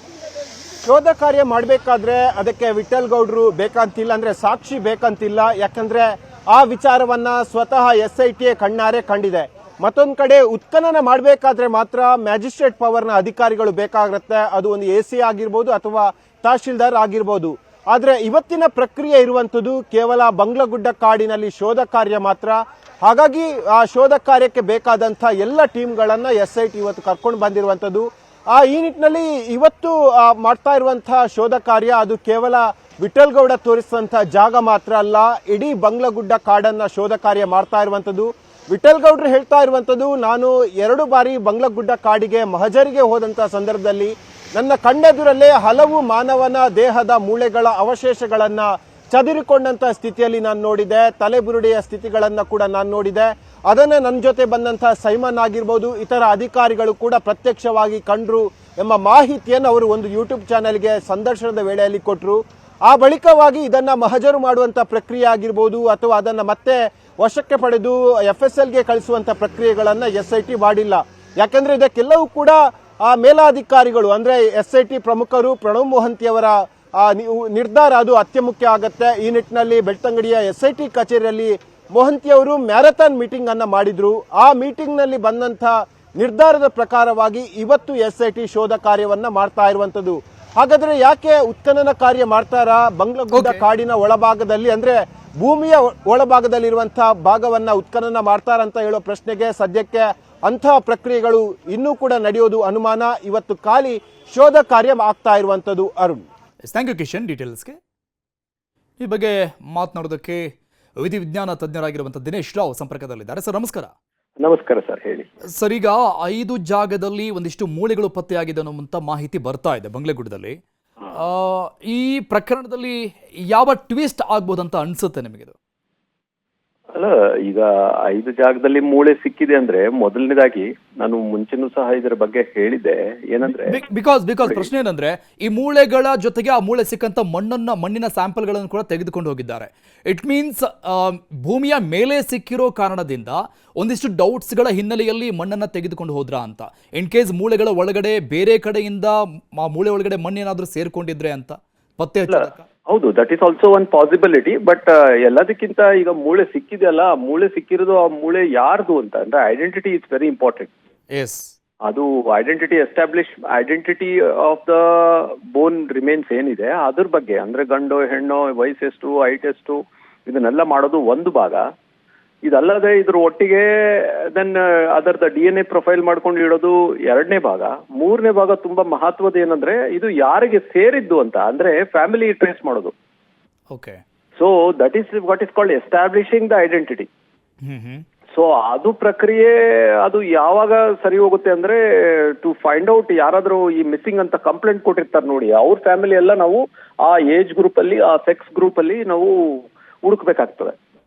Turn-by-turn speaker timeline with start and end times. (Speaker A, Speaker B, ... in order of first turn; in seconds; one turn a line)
Speaker A: 0.8-106.2
Speaker B: 93.3-93.6
Speaker B: 106.7-107.8
Speaker B: 109.0-110.5
Speaker B: 111.0-113.9
Speaker C: 114.4-115.3
Speaker B: 115.6-120.6
Speaker B: 121.1-123.0
Speaker B: 123.5-125.5
Speaker C: 127.0-133.8
Speaker B: 133.5-152.7
Speaker C: 134.4-134.7
Speaker C: 152.3-160.7
Speaker B: 161.1-161.5
Speaker C: 161.9-171.6
Speaker C: 172.5-182.9
Speaker B: 183.7-184.0
Speaker C: 184.4-187.1
Speaker B: 187.7-188.0
Speaker C: 188.3-200.8